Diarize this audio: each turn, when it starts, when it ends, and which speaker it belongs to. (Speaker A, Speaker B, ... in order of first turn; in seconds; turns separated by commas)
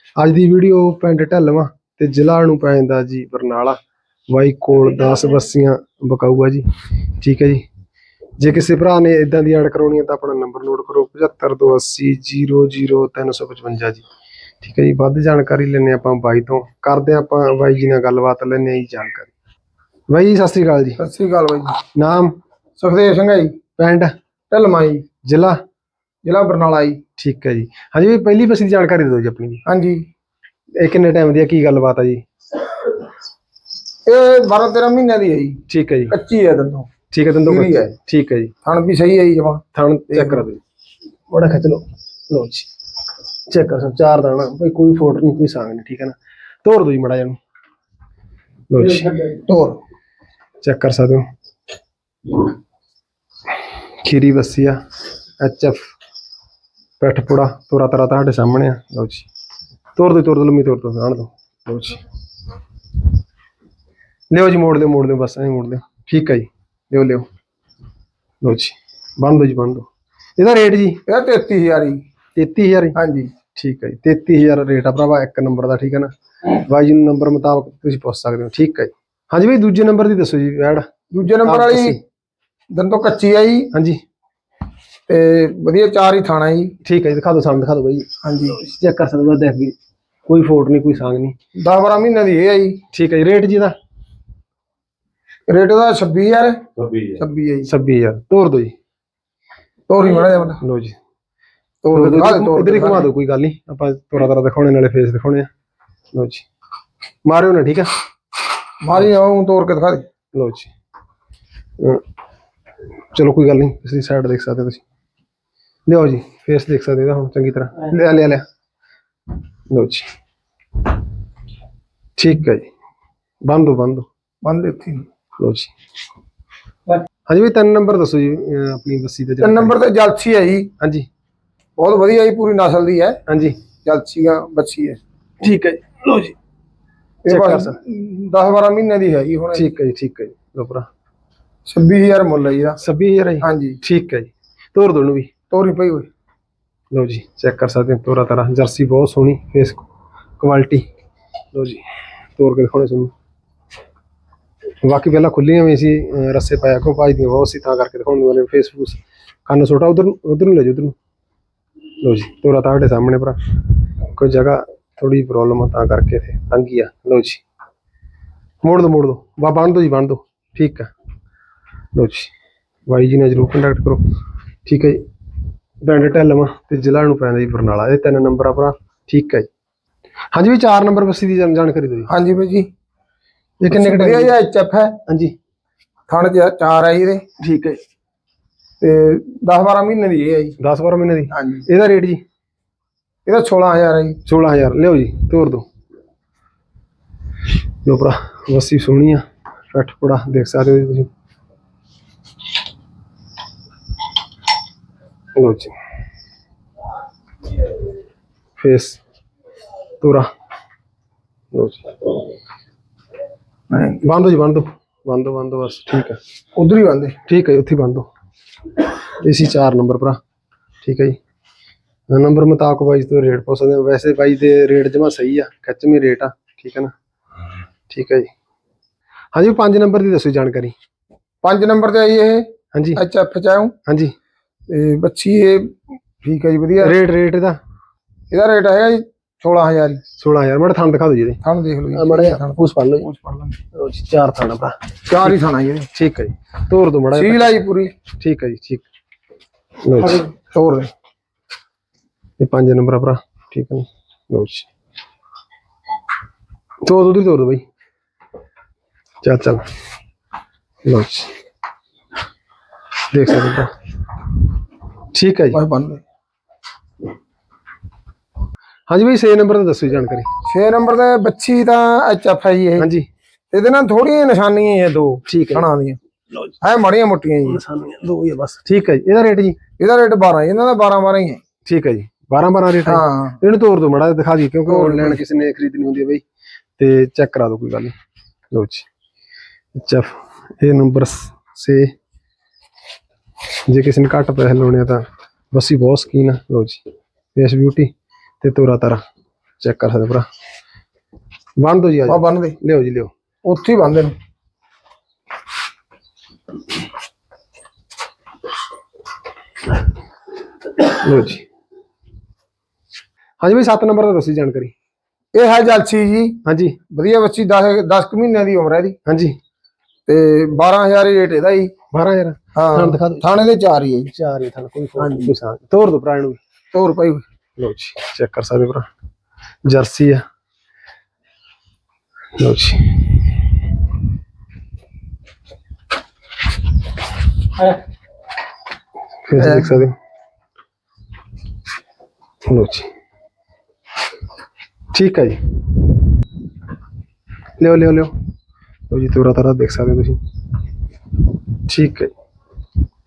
Speaker A: 0.2-3.8, Speaker A: 4.3-6.6, Speaker A: 7.2-7.6, Speaker A: 8.4-14.1, Speaker A: 14.6-19.3, Speaker A: 20.1-21.0, Speaker B: 21.0-21.8, Speaker A: 21.9-22.4, Speaker B: 22.8-23.6, Speaker A: 23.8-24.1, Speaker B: 24.5-25.1, Speaker A: 25.2-25.6, Speaker B: 26.2-27.0, Speaker A: 27.2-29.6, Speaker B: 29.7-30.1, Speaker A: 30.8-32.2, Speaker B: 34.1-36.9, Speaker A: 35.7-36.1, Speaker A: 37.1-38.5, Speaker B: 37.5-37.9, Speaker B: 38.6-40.5, Speaker A: 39.8-40.6, Speaker A: 41.3-42.7, Speaker A: 43.5-47.4, Speaker A: 48.7-49.2, Speaker B: 49.2-49.8, Speaker A: 50.6-51.3, Speaker A: 54.0-54.8, Speaker A: 55.4-55.9, Speaker A: 57.0-59.3, Speaker A: 60.0-62.0, Speaker A: 64.3-67.3, Speaker A: 68.4-71.0, Speaker B: 71.1-72.0, Speaker A: 72.4-73.0, Speaker B: 73.0-73.3, Speaker A: 73.5-82.0, Speaker B: 81.1-82.0, Speaker B: 82.7-83.7, Speaker A: 83.7-84.0, Speaker B: 85.1-86.8, Speaker A: 86.8-89.8, Speaker B: 88.2-88.6, Speaker A: 90.3-91.4, Speaker B: 91.6-92.8, Speaker A: 92.9-93.8, Speaker B: 95.5-97.7, Speaker A: 97.7-98.7, Speaker B: 99.9-100.6, Speaker A: 100.6-101.0, Speaker B: 101.8-103.1, Speaker A: 101.9-105.5, Speaker A: 106.1-106.5, Speaker A: 107.3-107.9, Speaker B: 108.8-110.0, Speaker A: 110.3-110.7, Speaker A: 113.1-114.8, Speaker A: 115.9-118.4, Speaker A: 119.7-120.1, Speaker A: 122.2-122.7, Speaker A: 123.4-124.1, Speaker B: 124.4-125.1, Speaker A: 125.4-125.7, Speaker A: 127.3-129.8, Speaker B: 129.4-130.7, Speaker A: 130.8-131.1, Speaker B: 131.8-133.2, Speaker A: 133.3-133.6, Speaker B: 133.8-135.0, Speaker A: 135.4-136.3, Speaker B: 137.2-139.7, Speaker A: 137.3-137.8, Speaker A: 139.5-140.9, Speaker B: 141.7-142.8, Speaker A: 142.8-145.3, Speaker B: 143.4-143.8, Speaker B: 145.5-146.1, Speaker A: 146.9-149.8, Speaker A: 150.4-150.9, Speaker A: 151.5-151.8, Speaker A: 152.4-153.1, Speaker A: 154.8-160.9, Speaker A: 162.0-163.4, Speaker A: 164.2-167.4, Speaker A: 168.6-170.9, Speaker A: 171.9-172.3, Speaker A: 172.9-174.0, Speaker A: 174.7-175.0, Speaker A: 175.8-179.5, Speaker A: 180.3-182.1, Speaker B: 182.1-182.7, Speaker A: 183.6-184.3, Speaker B: 183.7-185.0, Speaker A: 185.1-185.3, Speaker B: 186.1-187.2, Speaker A: 187.4-187.8, Speaker B: 188.8-190.6, Speaker A: 190.6-192.2, Speaker B: 191.3-191.7, Speaker B: 193.3-194.2, Speaker A: 194.3-195.7, Speaker A: 197.8-201.1, Speaker A: 205.4-205.7, Speaker A: 208.6-209.0, Speaker A: 210.0-210.3, Speaker A: 211.5-211.9, Speaker B: 213.7-214.0, Speaker A: 214.0-216.2, Speaker B: 216.6-217.2, Speaker A: 217.3-218.1, Speaker A: 219.2-220.2, Speaker A: 220.8-221.2, Speaker A: 222.1-226.9, Speaker A: 227.9-228.3, Speaker A: 229.3-230.7, Speaker B: 231.4-233.7, Speaker A: 232.7-233.0, Speaker A: 233.9-234.1, Speaker B: 234.7-236.9, Speaker A: 236.8-237.6, Speaker B: 238.3-240.0, Speaker A: 240.2-241.4, Speaker B: 241.4-243.6, Speaker A: 241.9-243.1, Speaker A: 243.7-244.8, Speaker B: 245.1-245.9, Speaker A: 245.9-247.6, Speaker B: 247.1-247.9, Speaker A: 248.2-248.8, Speaker A: 249.8-250.3, Speaker B: 250.4-250.9, Speaker A: 252.4-254.7, Speaker A: 256.9-257.6, Speaker A: 259.2-259.6, Speaker A: 260.9-261.3, Speaker A: 263.1-263.7, Speaker A: 265.1-265.6, Speaker B: 265.5-266.0, Speaker A: 268.9-270.3, Speaker B: 270.4-272.9, Speaker A: 272.8-273.1, Speaker B: 273.5-276.0, Speaker A: 275.3-275.7, Speaker B: 276.6-277.6, Speaker A: 277.4-279.6, Speaker B: 279.8-281.4, Speaker A: 281.7-286.2, Speaker B: 282.9-283.4, Speaker B: 284.7-285.2, Speaker A: 286.8-287.9, Speaker A: 288.5-288.9, Speaker A: 289.8-291.9, Speaker A: 293.7-296.8, Speaker A: 297.4-299.0, Speaker A: 299.6-300.3, Speaker A: 301.6-303.1, Speaker B: 302.1-302.6, Speaker B: 303.4-304.1, Speaker A: 310.9-311.4, Speaker A: 313.4-314.7, Speaker B: 315.3-316.4, Speaker A: 316.5-316.8, Speaker B: 316.9-319.0, Speaker A: 319.1-319.4, Speaker B: 320.1-321.7, Speaker A: 321.9-323.3, Speaker B: 322.6-324.1, Speaker A: 324.1-326.4, Speaker B: 325.0-325.3, Speaker B: 326.7-327.2, Speaker A: 327.6-328.9, Speaker A: 329.7-330.2, Speaker A: 332.4-333.0, Speaker A: 339.3-339.9, Speaker B: 339.4-339.8, Speaker A: 342.5-342.9, Speaker A: 344.9-345.4, Speaker A: 347.6-348.1, Speaker A: 348.9-350.2, Speaker A: 351.7-352.1